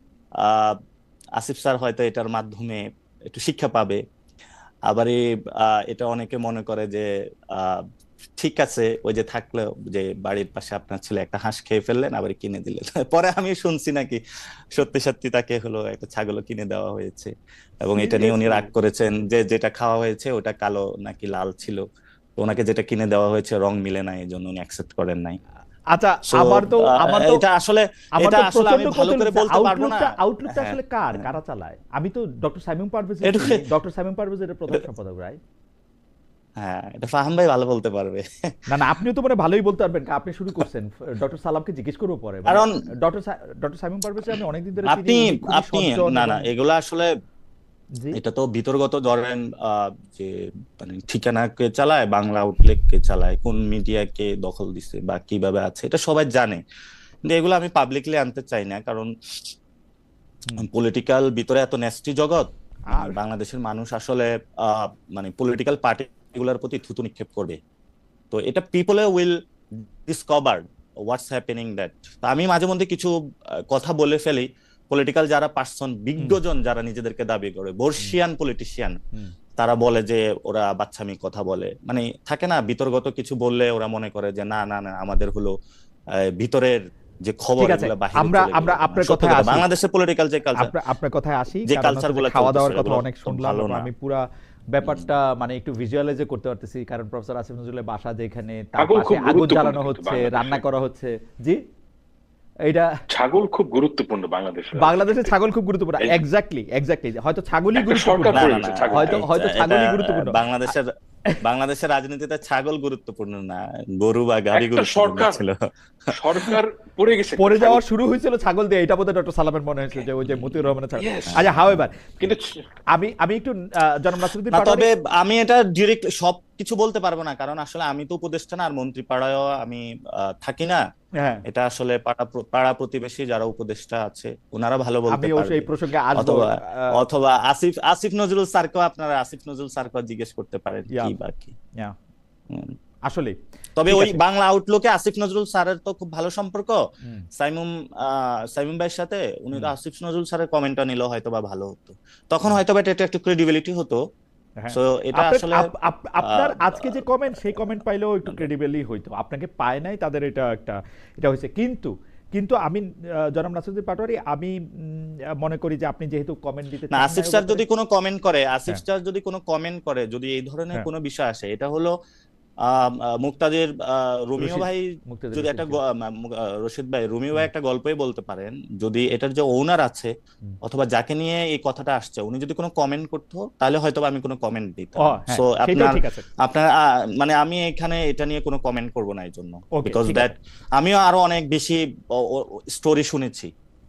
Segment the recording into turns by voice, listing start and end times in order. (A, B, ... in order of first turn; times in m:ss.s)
0:00.4-0:00.8 A
0:01.4-0:04.0 A
0:04.9-0:07.8 A
0:08.4-0:14.2 A
0:14.7-0:21.8 A
0:17.9-0:18.7 B
0:22.4-0:25.4 A
0:25.9-0:27.4 B
0:26.2-0:31.3 A
0:28.2-0:35.4 B
0:33.2-0:33.7 A
0:36.6-0:38.7 A
0:38.7-0:46.5 B
0:42.4-0:42.7 A
0:44.8-0:47.1 A
0:48.1-0:56.6 A
0:57.3-0:59.5 A
1:00.6-1:07.6 A
1:02.9-1:03.2 B
1:08.3-1:13.1 A
1:13.7-1:19.0 A
1:19.6-1:25.5 A
1:26.2-1:30.7 A
1:27.6-1:29.6 B
1:30.6-1:41.6 B
1:31.6-1:33.9 A
1:34.8-1:35.1 A
1:38.8-1:40.6 C
1:43.1-1:45.3 C
1:44.8-1:50.7 B
1:47.8-1:49.2 C
1:48.3-1:50.9 A
1:51.4-1:55.6 A
1:54.5-1:55.4 C
1:56.1-1:57.8 C
1:56.3-1:56.6 A
1:57.4-2:02.3 B
2:00.2-2:00.7 A
2:00.9-2:01.4 C
2:01.3-2:01.7 A
2:02.2-2:02.6 C
2:02.9-2:04.9 B
2:04.5-2:10.8 A
2:11.2-2:11.4 B
2:11.4-2:21.5 A
2:15.1-2:17.0 B
2:23.1-2:24.2 B
2:23.8-2:26.8 A
2:27.4-2:34.0 A
2:34.6-2:47.6 B
2:34.7-2:37.6 A
2:46.9-2:51.9 A
2:52.6-3:00.1 A
2:54.4-2:55.8 B
3:00.6-3:13.5 A
3:05.0-3:06.2 B
3:09.7-3:10.3 B